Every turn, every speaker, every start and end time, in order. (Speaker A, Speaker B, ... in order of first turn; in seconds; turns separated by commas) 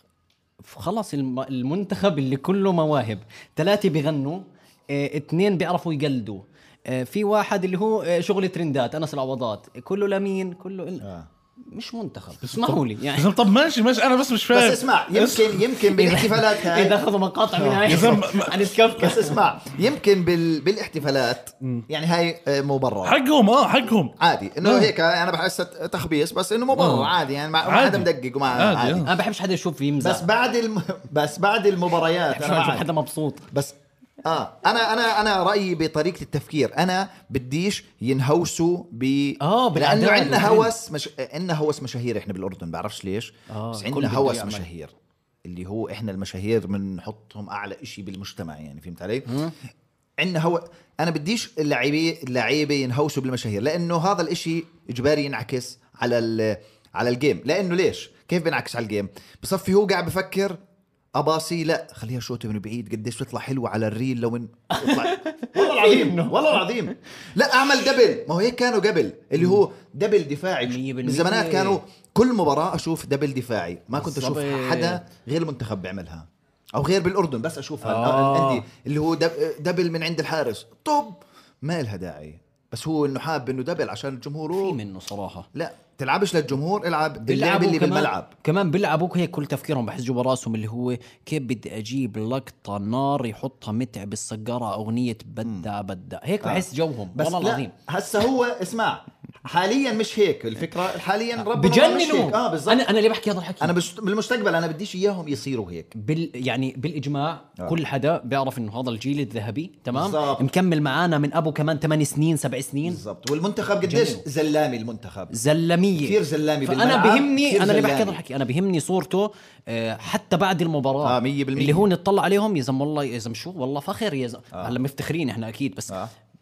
Speaker A: 0.6-11.1, Speaker B: 11.0-11.3, Speaker A: 11.7-13.3, Speaker C: 12.4-15.7, Speaker B: 14.5-17.0, Speaker A: 15.9-19.4, Speaker B: 17.6-18.3, Speaker C: 17.9-18.8, Speaker B: 18.9-23.2, Speaker C: 23.0-24.9, Speaker B: 24.2-29.1, Speaker C: 26.8-27.1, Speaker C: 27.6-29.1, Speaker A: 29.1-30.2, Speaker B: 30.0-32.9, Speaker A: 32.3-33.5, Speaker B: 33.5-44.9, Speaker A: 39.4-40.7, Speaker A: 43.5-44.7, Speaker B: 45.5-49.4, Speaker A: 49.3-49.5, Speaker B: 50.2-60.6, Speaker B: 61.1-84.8, Speaker A: 64.7-66.6, Speaker A: 70.6-71.8, Speaker A: 74.0-75.0, Speaker A: 77.8-78.6, Speaker A: 84.5-85.5, Speaker B: 85.5-88.3, Speaker A: 87.2-97.7, Speaker B: 96.4-102.8, Speaker A: 101.4-103.7, Speaker B: 103.6-105.9, Speaker A: 106.0-113.0, Speaker B: 109.9-110.5, Speaker B: 112.8-115.3, Speaker A: 113.8-114.2, Speaker A: 115.3-126.0, Speaker B: 116.0-118.2, Speaker B: 121.0-121.9